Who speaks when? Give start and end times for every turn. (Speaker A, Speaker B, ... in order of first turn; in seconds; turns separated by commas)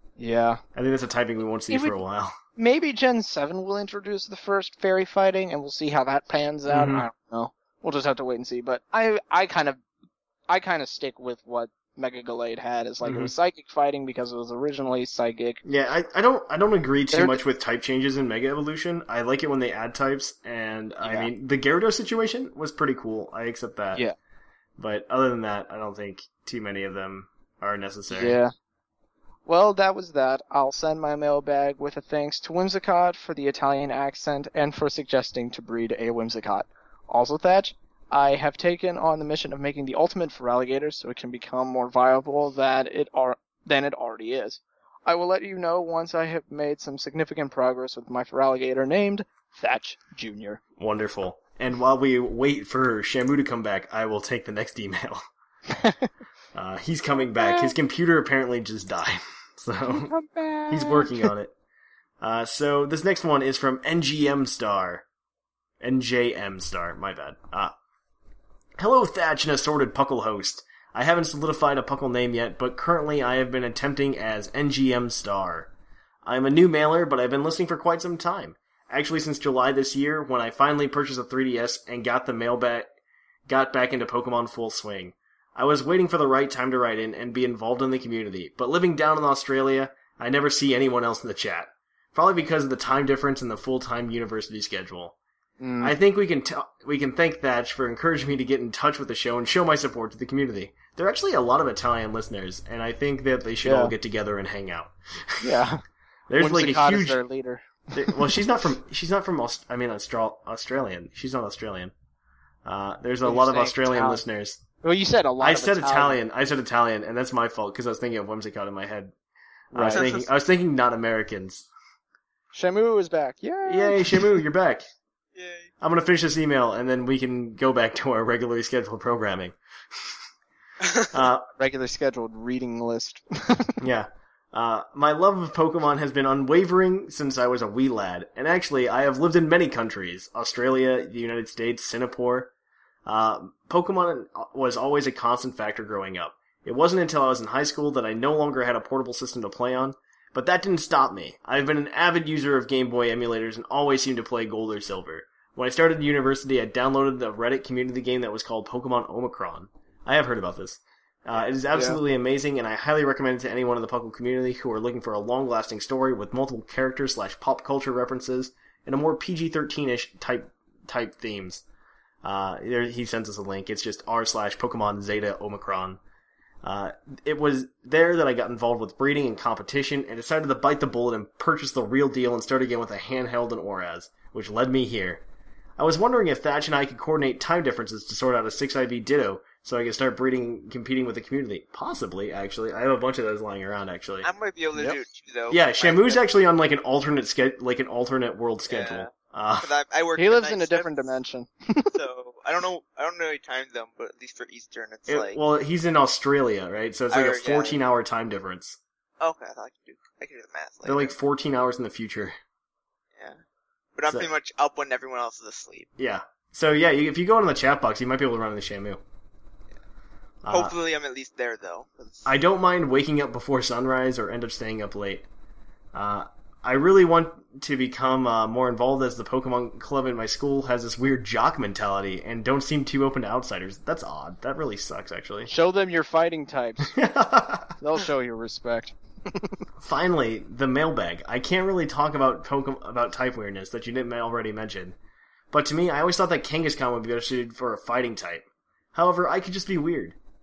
Speaker A: 0.2-0.6, Speaker B: 0.7-2.4, Speaker A: 2.6-9.8, Speaker B: 6.7-7.1, Speaker A: 10.5-15.6, Speaker B: 13.0-13.3, Speaker B: 15.6-24.0, Speaker A: 17.1-17.4, Speaker A: 21.0-21.3, Speaker B: 24.8-28.4, Speaker A: 28.1-28.5, Speaker A: 29.5-50.6, Speaker B: 50.8-55.2, Speaker A: 55.7-56.1, Speaker B: 56.5-60.1, Speaker A: 57.4-57.7, Speaker A: 59.9-61.3, Speaker B: 60.7-61.5, Speaker B: 62.2-65.0, Speaker B: 65.8-67.7, Speaker B: 68.8-75.7, Speaker B: 76.2-82.9, Speaker B: 83.5-95.1, Speaker A: 95.6-95.9, Speaker B: 95.8-105.6, Speaker A: 103.6-103.9, Speaker A: 105.4-105.8, Speaker B: 106.3-107.2, Speaker A: 106.4-108.3, Speaker B: 107.9-111.9, Speaker B: 112.6-114.6, Speaker A: 113.2-114.2, Speaker A: 114.8-116.2, Speaker B: 115.4-119.1, Speaker B: 119.7-121.7, Speaker A: 119.7-120.0, Speaker C: 119.9-120.3, Speaker A: 122.5-124.3, Speaker B: 123.7-124.9, Speaker C: 125.3-125.7, Speaker B: 125.8-130.2, Speaker B: 131.1-131.4, Speaker A: 131.6-133.8, Speaker B: 133.8-142.5, Speaker B: 143.1-171.6, Speaker A: 161.7-162.0, Speaker B: 172.2-176.0, Speaker B: 176.6-185.2, Speaker B: 185.8-194.3, Speaker C: 194.2-196.2, Speaker B: 195.5-199.7, Speaker C: 198.7-201.1, Speaker A: 200.2-201.9, Speaker C: 201.9-205.4, Speaker B: 205.1-208.8, Speaker C: 207.1-207.8, Speaker C: 209.2-211.1, Speaker B: 210.8-212.3, Speaker C: 213.9-215.9, Speaker B: 216.0-219.0, Speaker B: 220.4-220.7, Speaker C: 220.5-222.3, Speaker B: 222.2-225.3, Speaker B: 225.9-235.5, Speaker A: 235.5-237.0, Speaker B: 236.9-237.7, Speaker A: 237.8-239.5, Speaker B: 239.8-244.9, Speaker B: 245.5-250.2